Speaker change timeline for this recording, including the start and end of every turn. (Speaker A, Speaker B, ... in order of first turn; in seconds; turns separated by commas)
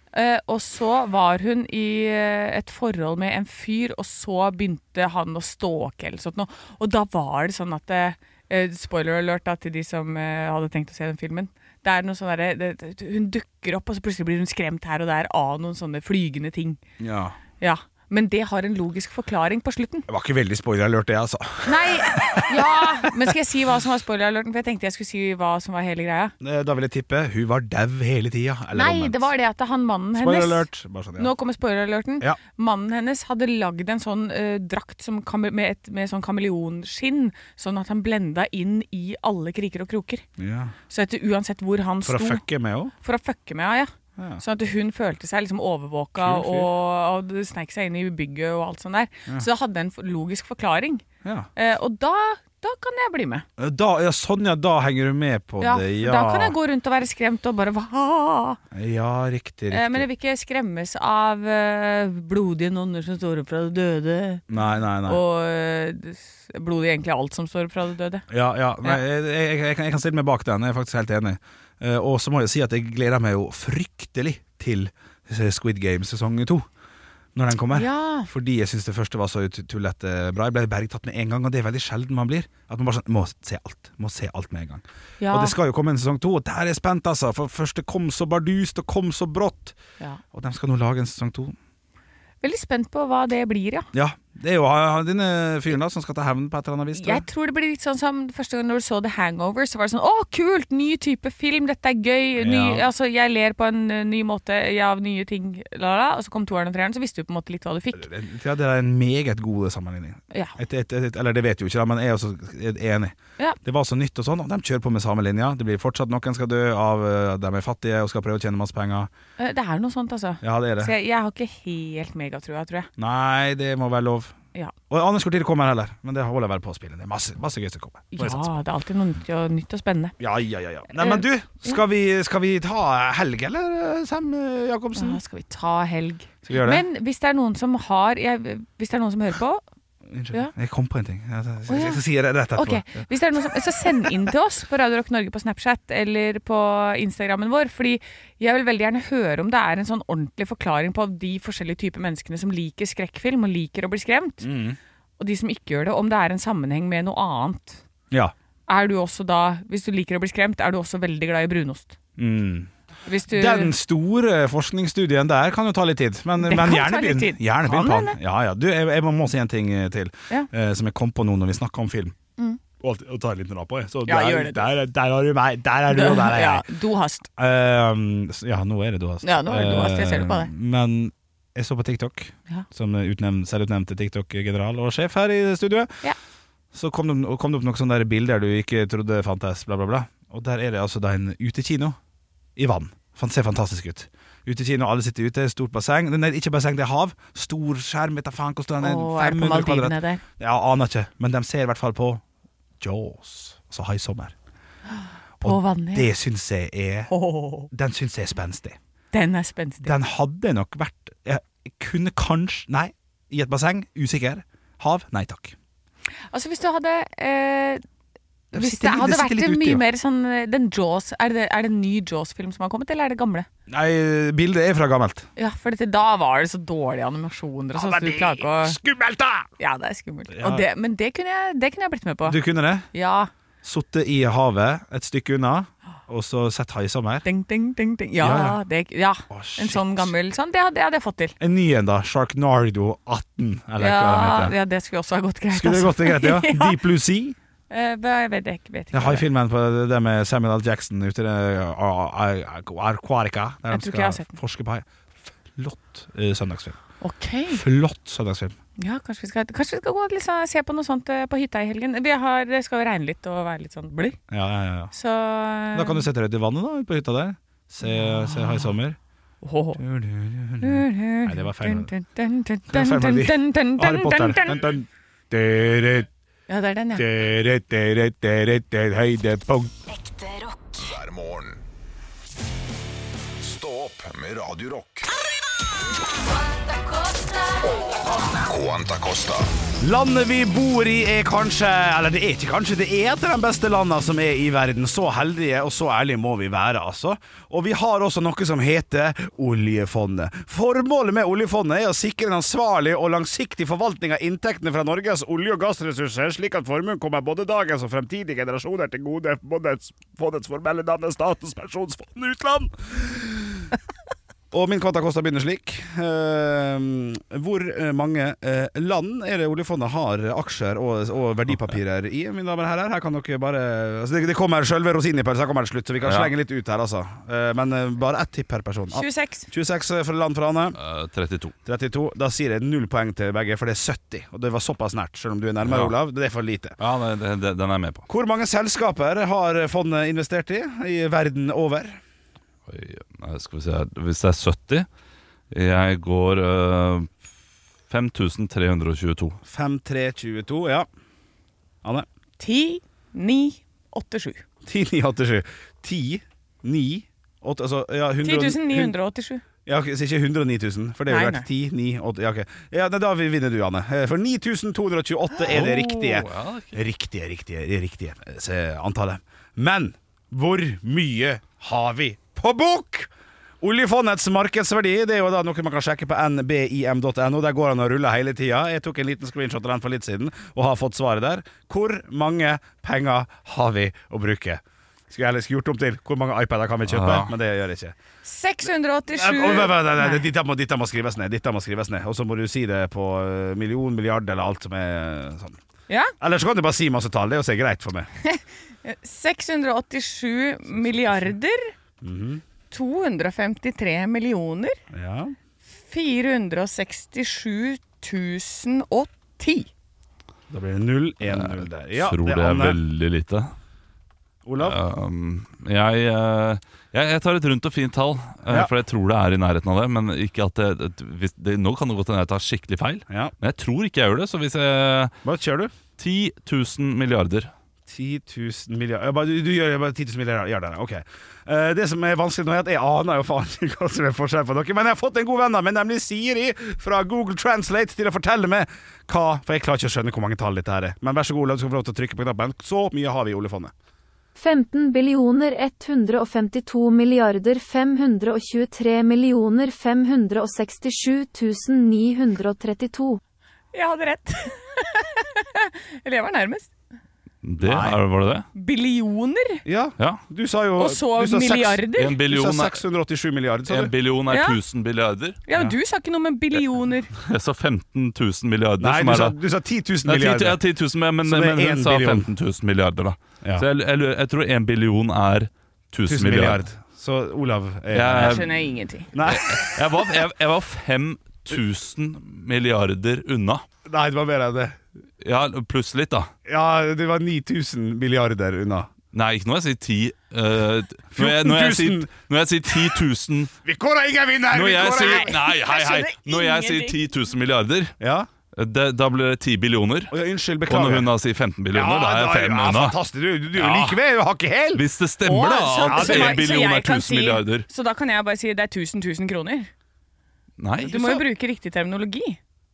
Speaker A: 0.1-16.8, Speaker B: 17.0-17.4, Speaker A: 17.6-20.1, Speaker B: 20.1-23.1, Speaker A: 21.7-26.3, Speaker B: 26.4-29.3, Speaker A: 28.7-30.6, Speaker B: 30.1-31.3, Speaker A: 31.2-40.2, Speaker B: 40.4-40.8, Speaker A: 40.9-42.4, Speaker B: 42.0-42.9, Speaker A: 43.0-51.0, Speaker B: 44.2-44.4, Speaker B: 46.2-46.7, Speaker B: 51.2-51.5, Speaker A: 51.6-53.5, Speaker B: 53.6-56.6, Speaker A: 55.6-58.6, Speaker B: 58.7-60.1, Speaker A: 59.7-64.4, Speaker B: 64.5-65.2, Speaker A: 65.0-68.2, Speaker B: 68.3-76.7, Speaker B: 77.3-89.8, Speaker A: 77.7-78.3, Speaker A: 85.2-85.5, Speaker B: 90.3-91.5, Speaker A: 92.4-93.9, Speaker B: 93.9-97.2, Speaker A: 97.0-108.0, Speaker B: 102.4-102.9, Speaker B: 107.9-119.1, Speaker A: 119.4-122.9, Speaker B: 120.4-120.9, Speaker B: 123.0-124.3, Speaker B: 124.9-128.5, Speaker A: 128.1-130.2, Speaker B: 130.2-135.2, Speaker A: 130.9-131.8, Speaker A: 134.9-139.6, Speaker B: 136.4-136.8, Speaker B: 140.1-144.3, Speaker A: 141.7-142.0, Speaker A: 142.6-154.5, Speaker B: 154.4-154.8, Speaker A: 155.2-157.8, Speaker A: 158.7-162.0, Speaker B: 162.2-162.7, Speaker A: 163.1-163.7, Speaker B: 163.3-172.2, Speaker A: 166.4-168.2, Speaker B: 172.8-176.7, Speaker A: 174.1-174.7, Speaker A: 175.9-177.3, Speaker B: 177.4-185.9, Speaker A: 179.2-180.5, Speaker B: 186.7-192.0, Speaker B: 192.6-202.2, Speaker A: 198.8-200.2, Speaker B: 202.8-204.3, Speaker A: 204.9-206.1, Speaker B: 205.4-207.1, Speaker A: 207.1-207.7, Speaker B: 207.7-208.8, Speaker A: 209.1-209.9, Speaker B: 209.8-215.6, Speaker A: 216.3-217.8, Speaker B: 218.5-219.8, Speaker A: 218.5-223.5, Speaker B: 223.7-225.3, Speaker A: 225.4-228.8, Speaker B: 227.8-229.5, Speaker A: 229.6-232.4, Speaker B: 230.3-230.7, Speaker B: 232.2-232.9, Speaker A: 232.9-233.3, Speaker B: 233.6-237.3, Speaker A: 237.2-241.4, Speaker B: 238.2-238.6, Speaker B: 239.3-240.1, Speaker B: 241.4-244.6, Speaker A: 243.8-246.8, Speaker B: 245.5-247.4, Speaker A: 247.7-249.3, Speaker B: 248.9-256.8, Speaker A: 253.7-254.3, Speaker A: 257.0-257.6, Speaker B: 257.5-258.6, Speaker A: 258.8-264.2, Speaker B: 264.3-264.9, Speaker A: 264.9-266.1, Speaker B: 265.7-269.0, Speaker A: 267.8-268.7, Speaker A: 269.4-269.8, Speaker B: 269.8-271.9, Speaker A: 270.6-274.7, Speaker B: 272.7-276.1, Speaker A: 276.5-277.1, Speaker B: 276.9-279.7, Speaker C: 279.9-280.8, Speaker D: 280.8-281.6, Speaker D: 283.4-285.1, Speaker C: 286.6-287.6, Speaker D: 288.3-289.5, Speaker B: 289.8-313.8, Speaker B: 314.5-330.8, Speaker E: 326.1-326.3, Speaker A: 328.9-329.5, Speaker E: 330.8-331.5, Speaker B: 331.6-336.8, Speaker E: 335.6-335.9, Speaker E: 336.8-338.1, Speaker B: 338.1-342.0, Speaker E: 342.7-344.9, Speaker E: 345.5-347.2, Speaker E: 347.9-349.4, Speaker B: 349.4-350.9, Speaker A: 352.4-354.4, Speaker B: 354.6-358.9, Speaker A: 358.2-359.4, Speaker B: 359.7-373.1, Speaker A: 361.1-361.5, Speaker E: 365.4-366.8, Speaker B: 373.6-387.9, Speaker E: 386.9-387.3, Speaker A: 388.2-390.3, Speaker B: 389.1-395.6, Speaker B: 396.2-398.1, Speaker A: 398.2-401.7, Speaker B: 401.0-401.3, Speaker B: 402.0-402.4, Speaker A: 402.7-404.8, Speaker B: 404.9-405.4, Speaker A: 405.8-409.7, Speaker B: 410.5-412.8, Speaker E: 411.3-413.5, Speaker B: 414.4-414.8, Speaker E: 414.6-425.1, Speaker B: 423.1-423.3, Speaker B: 425.2-425.7, Speaker E: 426.0-427.5, Speaker B: 427.9-443.7, Speaker F: 444.4-453.2, Speaker A: 453.7-456.7, Speaker E: 457.4-458.5, Speaker B: 457.6-458.0, Speaker A: 458.6-459.6, Speaker B: 459.6-463.9, Speaker A: 460.8-462.2, Speaker E: 461.9-462.8, Speaker E: 463.7-465.4, Speaker A: 464.3-464.6, Speaker A: 465.5-467.1, Speaker E: 467.1-469.4, Speaker B: 468.8-470.6, Speaker E: 470.1-476.6, Speaker B: 471.2-472.3, Speaker B: 476.1-478.5, Speaker E: 477.9-478.6, Speaker A: 478.2-479.1, Speaker B: 479.1-479.8, Speaker E: 479.2-483.6, Speaker B: 483.9-484.8, Speaker E: 485.2-486.3, Speaker B: 486.5-488.9, Speaker E: 489.1-493.5, Speaker B: 491.1-492.1, Speaker B: 493.6-495.4, Speaker E: 494.5-497.9, Speaker A: 494.9-497.0, Speaker B: 498.0-498.3, Speaker E: 498.6-500.1, Speaker B: 500.1-501.1, Speaker E: 500.7-503.0, Speaker B: 501.7-504.9, Speaker E: 503.6-504.0, Speaker E: 504.7-507.7, Speaker A: 505.2-509.7, Speaker B: 505.8-506.6, Speaker E: 510.6-511.2, Speaker A: 510.8-512.4